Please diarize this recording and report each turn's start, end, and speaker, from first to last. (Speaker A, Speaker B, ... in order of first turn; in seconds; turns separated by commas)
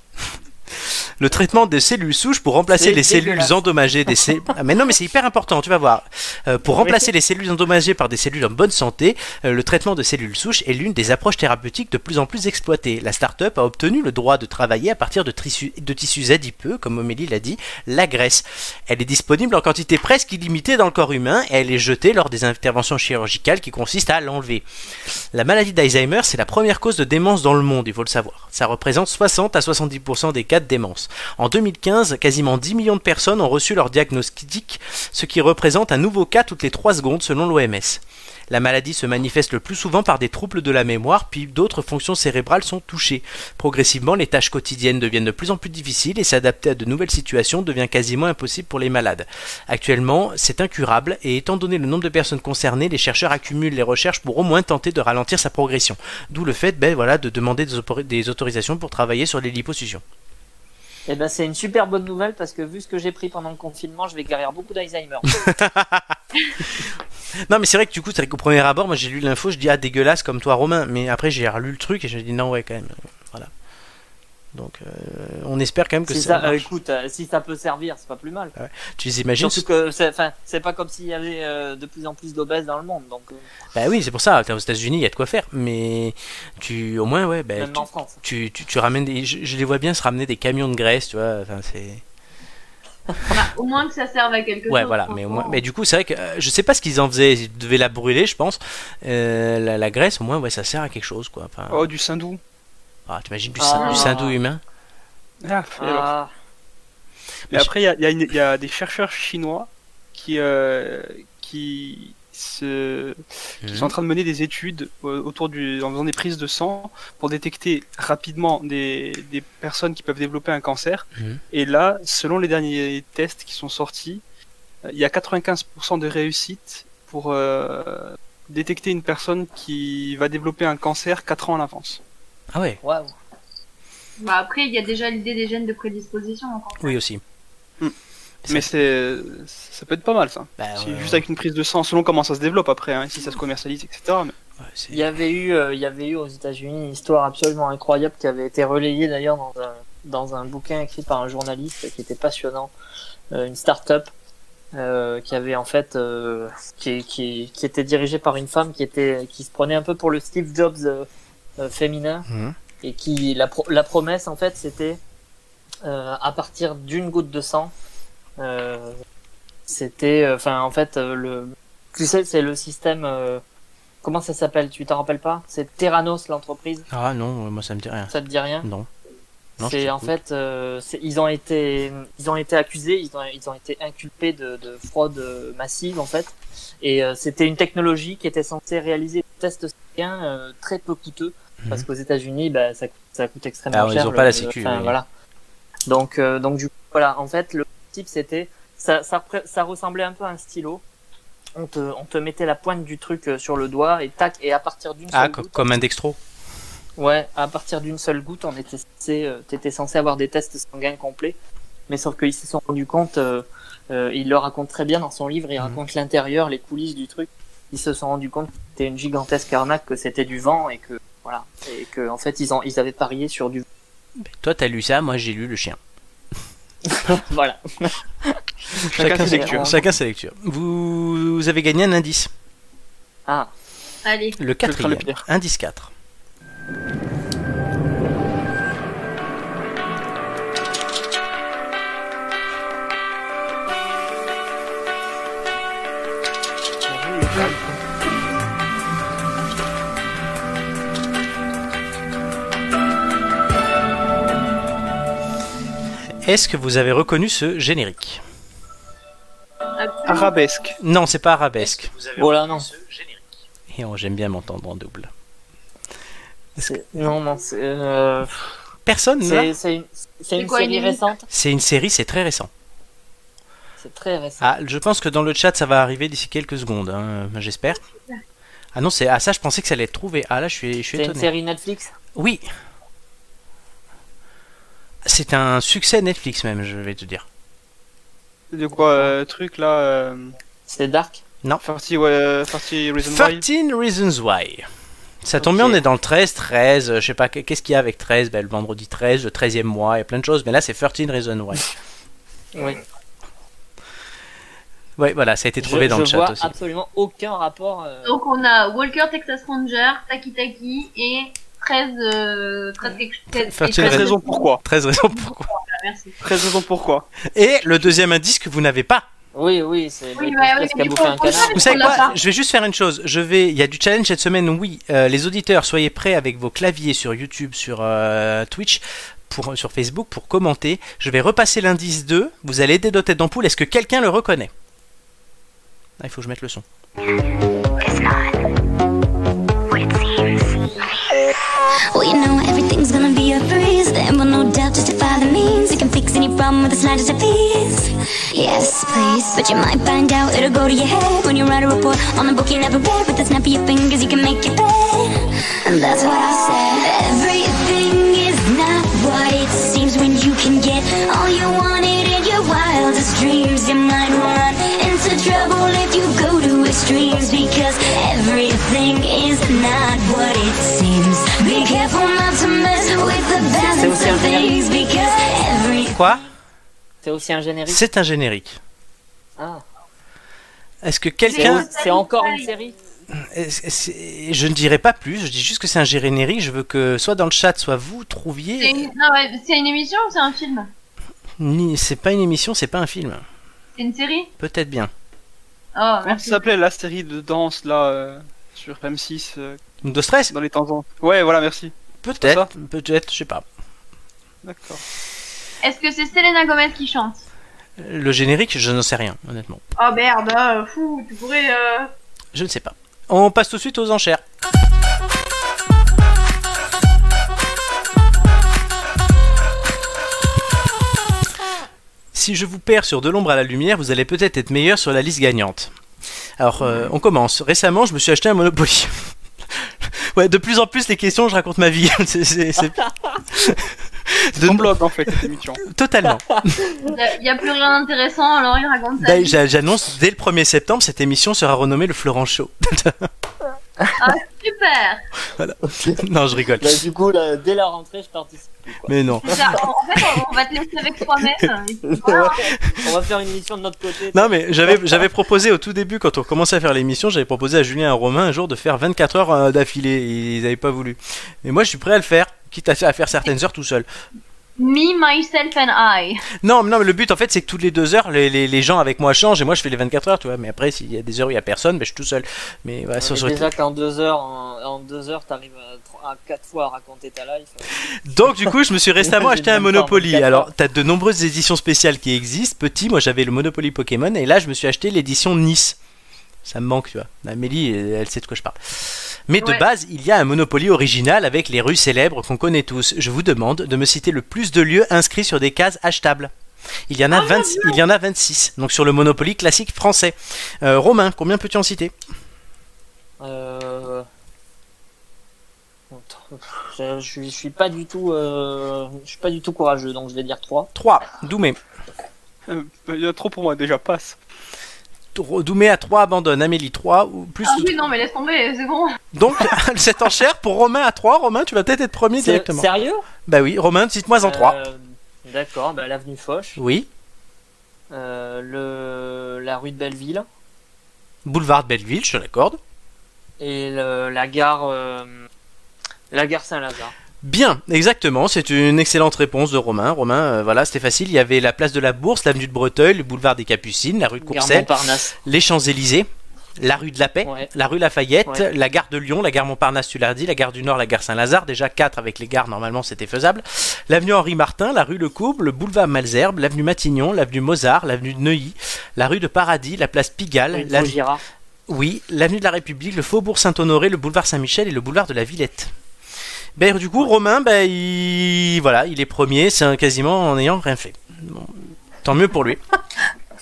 Speaker A: 0.7-24.6, Speaker B: 2.7-3.5, Speaker B: 6.8-7.1, Speaker A: 25.3-60.0, Speaker B: 61.1-65.4, Speaker A: 65.3-66.2, Speaker A: 67.5-73.5, Speaker A: 74.5-76.7, Speaker B: 76.1-78.5, Speaker A: 78.5-79.6, Speaker B: 79.4-83.5, Speaker A: 83.7-92.0, Speaker B: 87.6-88.2, Speaker C: 93.3-95.6, Speaker A: 94.7-101.9, Speaker D: 101.7-102.4, Speaker A: 103.1-104.6, Speaker B: 103.6-104.4, Speaker C: 103.8-104.1, Speaker D: 105.4-106.1, Speaker B: 105.8-106.3, Speaker D: 107.5-124.2, Speaker A: 113.6-113.9, Speaker A: 121.2-121.4, Speaker D: 124.8-132.0, Speaker A: 132.5-132.8, Speaker B: 132.8-133.1, Speaker C: 134.2-136.9, Speaker A: 136.8-137.2, Speaker D: 138.5-144.3, Speaker A: 140.6-141.2, Speaker A: 144.6-145.0, Speaker B: 144.9-152.7, Speaker B: 153.3-154.1, Speaker B: 154.7-162.2, Speaker A: 162.3-162.5, Speaker B: 162.8-165.0, Speaker B: 165.8-167.7, Speaker B: 168.4-169.0, Speaker B: 169.7-173.4, Speaker B: 174.0-176.9, Speaker A: 176.9-178.9, Speaker B: 178.1-178.7, Speaker A: 179.6-180.1, Speaker B: 179.6-195.1, Speaker A: 193.7-194.9, Speaker B: 195.9-200.8, Speaker B: 201.5-205.7, Speaker A: 205.1-206.2, Speaker B: 207.0-211.4, Speaker B: 211.9-223.6, Speaker A: 224.2-225.8, Speaker B: 226.9-228.3, Speaker D: 228.9-229.7, Speaker A: 228.9-232.3, Speaker B: 229.1-229.8, Speaker B: 233.3-233.5, Speaker C: 234.0-234.4, Speaker A: 234.4-235.9, Speaker D: 234.6-235.2, Speaker B: 246.9-247.8, Speaker A: 256.2-258.2, Speaker C: 259.8-260.4, Speaker D: 260.1-260.8, Speaker A: 260.8-262.1, Speaker B: 262.1-262.7, Speaker A: 262.9-263.1, Speaker A: 263.7-265.1, Speaker B: 266.6-268.6, Speaker A: 268.9-269.5, Speaker B: 269.2-271.2, Speaker C: 270.4-271.0, Speaker A: 271.3-272.5, Speaker B: 273.8-274.4, Speaker A: 274.4-277.8, Speaker A: 278.7-281.3, Speaker B: 280.9-281.9, Speaker A: 282.1-282.4, Speaker A: 285.0-287.2, Speaker D: 288.5-290.3, Speaker B: 288.7-289.1, Speaker B: 290.7-291.2, Speaker D: 291.6-293.4, Speaker A: 293.0-294.7, Speaker A: 295.2-301.6, Speaker B: 295.4-295.8, Speaker B: 302.5-302.8, Speaker A: 305.0-306.5, Speaker B: 305.6-308.1, Speaker C: 308.0-314.4, Speaker A: 313.4-314.1, Speaker D: 313.7-314.6, Speaker A: 314.6-315.5, Speaker C: 315.1-316.1, Speaker D: 316.2-317.1, Speaker A: 317.3-319.1, Speaker B: 319.3-322.1, Speaker C: 320.1-322.2, Speaker A: 321.5-334.5, Speaker A: 336.0-336.6, Speaker E: 337.8-338.4, Speaker E: 339.7-340.6, Speaker E: 341.9-376.1, Speaker B: 373.8-374.6, Speaker A: 375.9-376.2, Speaker B: 377.0-377.8, Speaker A: 377.7-378.6, Speaker B: 379.4-379.6, Speaker A: 380.8-381.6, Speaker C: 381.2-382.5, Speaker B: 381.3-382.8, Speaker A: 383.1-388.9, Speaker C: 388.6-390.7, Speaker A: 391.4-393.2, Speaker C: 393.8-394.3, Speaker A: 394.4-394.9, Speaker C: 395.8-396.4, Speaker D: 396.0-399.6, Speaker A: 399.8-400.3, Speaker D: 400.3-402.5, Speaker A: 402.0-403.4, Speaker D: 404.4-404.8, Speaker C: 405.6-407.2, Speaker A: 407.8-409.6, Speaker C: 409.8-411.9, Speaker A: 412.3-414.2, Speaker A: 422.1-425.7, Speaker A: 426.4-429.1, Speaker A: 429.8-432.8, Speaker A: 433.3-434.8, Speaker D: 434.4-435.6, Speaker A: 435.6-436.6, Speaker B: 436.2-436.9, Speaker C: 436.8-439.4, Speaker A: 439.0-443.1, Speaker C: 444.0-445.0, Speaker A: 445.3-446.8, Speaker B: 445.7-446.0, Speaker B: 446.6-449.5, Speaker A: 448.9-449.5, Speaker C: 449.2-452.5, Speaker B: 451.9-455.0, Speaker A: 454.1-463.9, Speaker C: 464.6-466.2, Speaker A: 466.4-473.5, Speaker B: 473.0-477.7, Speaker A: 478.0-485.8, Speaker B: 478.2-478.5, Speaker B: 479.0-480.5, Speaker A: 486.4-496.3, Speaker A: 496.9-501.9, Speaker C: 497.1-497.8, Speaker B: 503.2-504.1, Speaker B: 505.9-510.7, Speaker A: 510.7-511.6, Speaker D: 512.5-514.2, Speaker A: 515.1-517.8, Speaker C: 517.4-519.0, Speaker A: 519.1-522.7, Speaker B: 522.2-523.0, Speaker A: 523.2-524.6, Speaker B: 524.2-526.6, Speaker A: 526.6-526.9, Speaker B: 527.9-530.2, Speaker A: 531.2-532.6, Speaker B: 533.4-535.3, Speaker B: 536.1-536.9, Speaker A: 537.2-544.7, Speaker B: 544.2-545.1, Speaker A: 545.2-561.0, Speaker B: 547.2-547.5, Speaker B: 560.5-561.2, Speaker A: 561.7-565.7, Speaker A: 566.5-572.6